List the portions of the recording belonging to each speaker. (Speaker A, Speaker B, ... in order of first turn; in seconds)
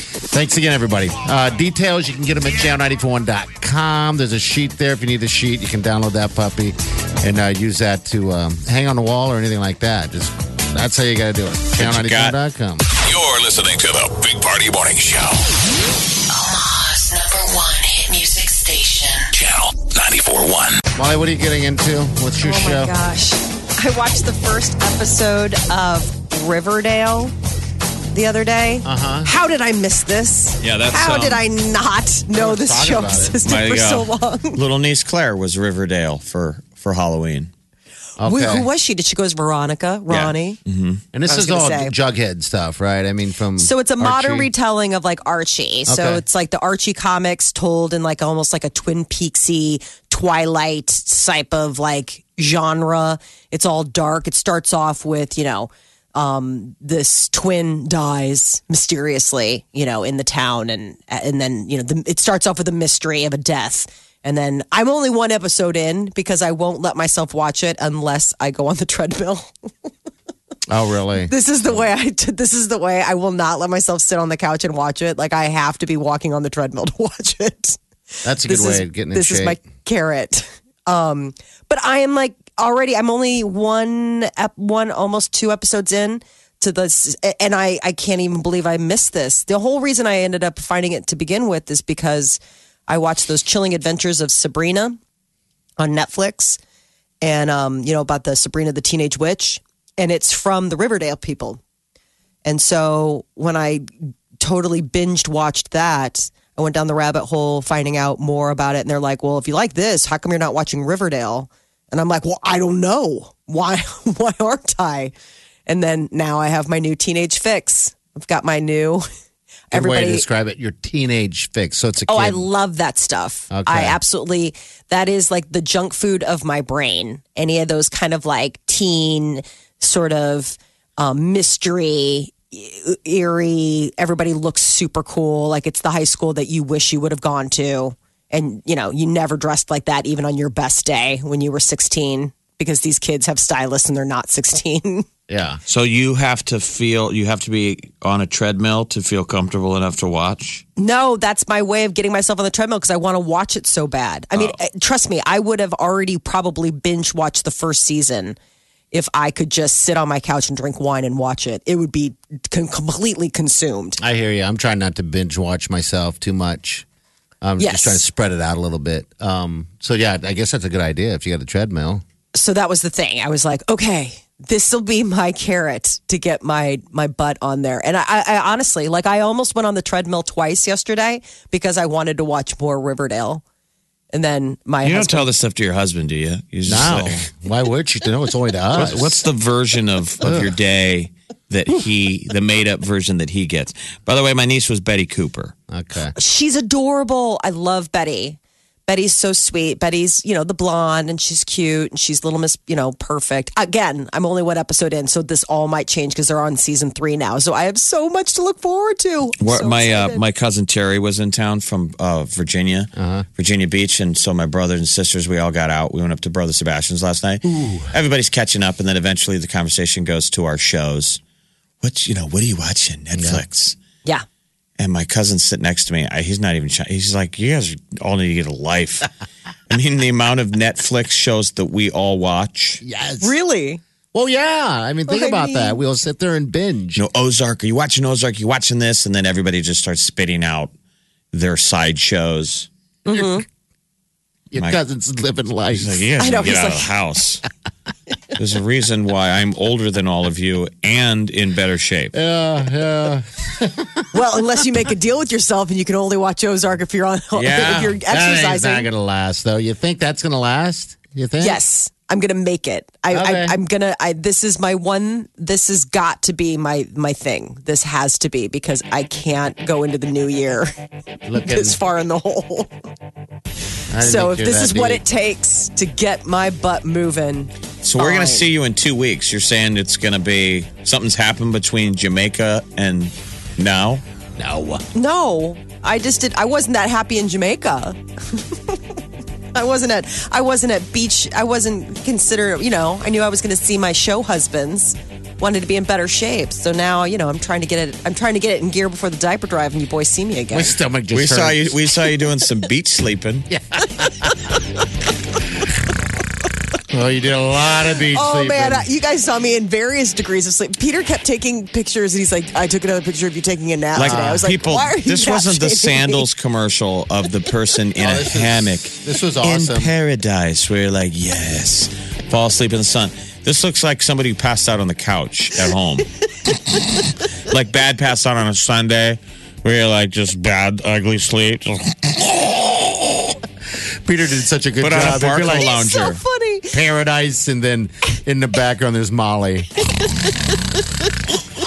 Speaker A: 0.3-12.8, 21.0-22.9, 28.8-29.3, 32.3-33.4, 38.2-38.7, 41.1-44.5, 45.9-46.2, 70.7-71.8, 78.2-79.6, 119.7-122.5, 123.5-124.0, 145.3-145.6, 164.0-166.9, 167.4-172.0, 186.7-189.2, 190.2-190.5, 195.7-196.1, 212.9-213.3, 217.4-217.9, 223.2-223.4, 232.8-233.3, 234.1-237.1, 244.5-246.1, 252.1-254.1, 257.9-261.6, 263.1-263.6, 271.3-271.8, 273.9-275.0, 284.4-284.8, 300.5-301.8, 303.5-304.3, 306.9-308.9, 313.9-314.5, 318.0-319.9, 334.0-335.7, 336.7-339.8
Speaker B: 11.8-12.4, 30.6-31.5, 33.4-37.5, 40.1-41.0, 145.7-150.6, 184.8-187.2, 188.7-195.5, 209.4-221.2, 221.8-223.8, 224.8-229.1, 229.7-232.8, 236.9-240.7, 241.3-242.7, 244.5-244.8, 245.7-247.4, 248.3-252.1, 257.3-258.0, 277.8-284.0, 301.1-303.5, 313.9-326.1, 326.7-333.3, 334.8-336.2
Speaker C: 13.0-15.4, 19.3-20.8
Speaker D: 16.3-19.3
Speaker E: 22.4-27.3, 28.1-34.6, 38.2-40.6, 41.3-41.9, 43.6-69.5, 71.2-77.8, 78.4-95.0, 95.8-96.6, 97.2-101.6, 102.5-103.8, 104.4-115.1, 115.7-119.0, 119.7-120.3, 122.1-145.1, 150.8-158.4, 158.9-164.0, 167.6-168.0, 172.3-183.4, 184.1-185.3, 196.2-210.2, 233.2-233.8, 235.1-235.8, 243.1-243.4, 246.2-246.9, 254.1-258.9, 261.4-270.7, 271.4-272.7, 274.0-278.5, 284.9-288.8, 289.5-300.8, 308.1-316.2, 335.4-336.8, 340.0-340.3